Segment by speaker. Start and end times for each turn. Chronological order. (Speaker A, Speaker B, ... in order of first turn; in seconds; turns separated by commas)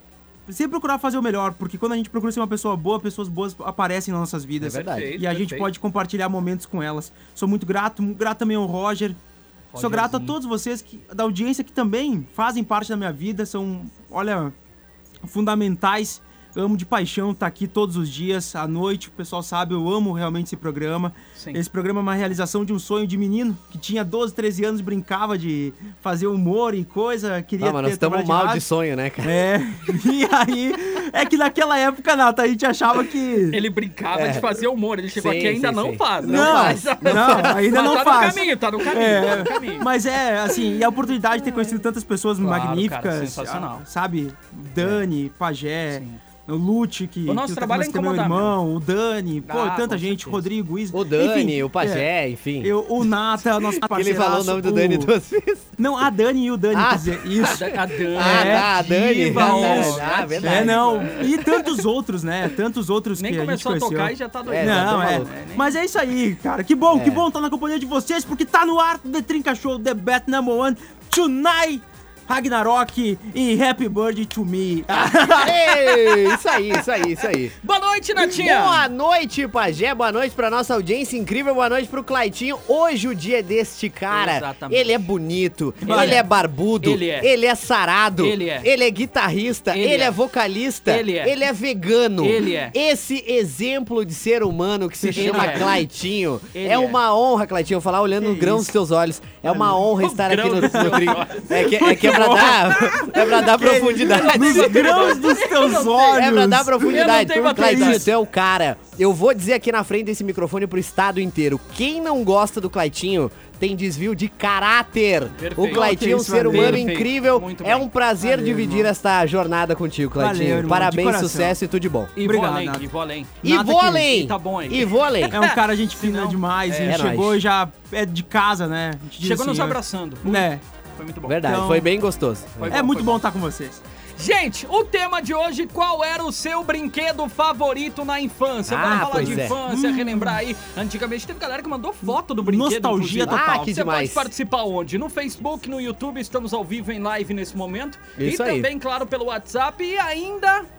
Speaker A: 0.5-9.2, Speaker B: 4.6-5.1, Speaker C: 4.7-5.7, Speaker C: 9.7-10.4, Speaker A: 9.8-14.5, Speaker A: 15.2-28.7, Speaker C: 21.4-21.6, Speaker B: 27.6-29.4, Speaker A: 29.2-33.6, Speaker C: 33.5-39.9, Speaker B: 34.1-34.5, Speaker B: 35.1-37.8, Speaker A: 36.3-52.1, Speaker C: 42.4-43.8, Speaker C: 45.9-46.2, Speaker C: 47.3-48.5, Speaker C: 49.5-50.5, Speaker B: 50.9-52.7, Speaker A: 52.6-55.1, Speaker B: 53.7-55.7, Speaker A: 55.8-75.6, Speaker B: 56.7-57.6, Speaker C: 57.5-61.3, Speaker B: 58.1-61.7, Speaker C: 63.2-65.8, Speaker B: 64.5-65.3, Speaker B: 66.9-67.3, Speaker B: 74.9-77.5, Speaker C: 75.8-78.9, Speaker B: 78.2-105.1, Speaker C: 84.1-85.1, Speaker A: 85.8-86.2, Speaker C: 85.8-86.2, Speaker C: 86.8-87.3, Speaker C: 88.2-88.7, Speaker C: 89.7-90.2, Speaker C: 90.9-91.3, Speaker C: 92.2-92.8, Speaker A: 95.0-95.8, Speaker C: 95.1-95.8, Speaker C: 96.5-97.0, Speaker A: 98.2-98.7, Speaker A: 99.4-99.9, Speaker C: 100.0-106.2, Speaker A: 100.6-108.1, Speaker B: 106.1-122.1, Speaker C: 106.9-108.1, Speaker C: 115.3-117.9, Speaker A: 115.6-116.9, Speaker A: 118.2-118.9, Speaker A: 120.2-121.6, Speaker C: 122.2-123.4, Speaker A: 122.2-122.9, Speaker A: 123.4-124.1, Speaker B: 123.4-125.4, Speaker C: 124.1-127.0, Speaker A: 125.3-130.6, Speaker B: 126.9-127.4, Speaker C: 129.2-131.6, Speaker B: 131.3-132.8, Speaker A: 131.4-131.9, Speaker C: 132.6-133.2, Speaker A: 132.7-133.8, Speaker C: 134.2-150.7, Speaker B: 138.7-139.6, Speaker A: 138.9-140.4, Speaker A: 142.1-143.5, Speaker B: 143.2-144.3, Speaker B: 148.2-148.7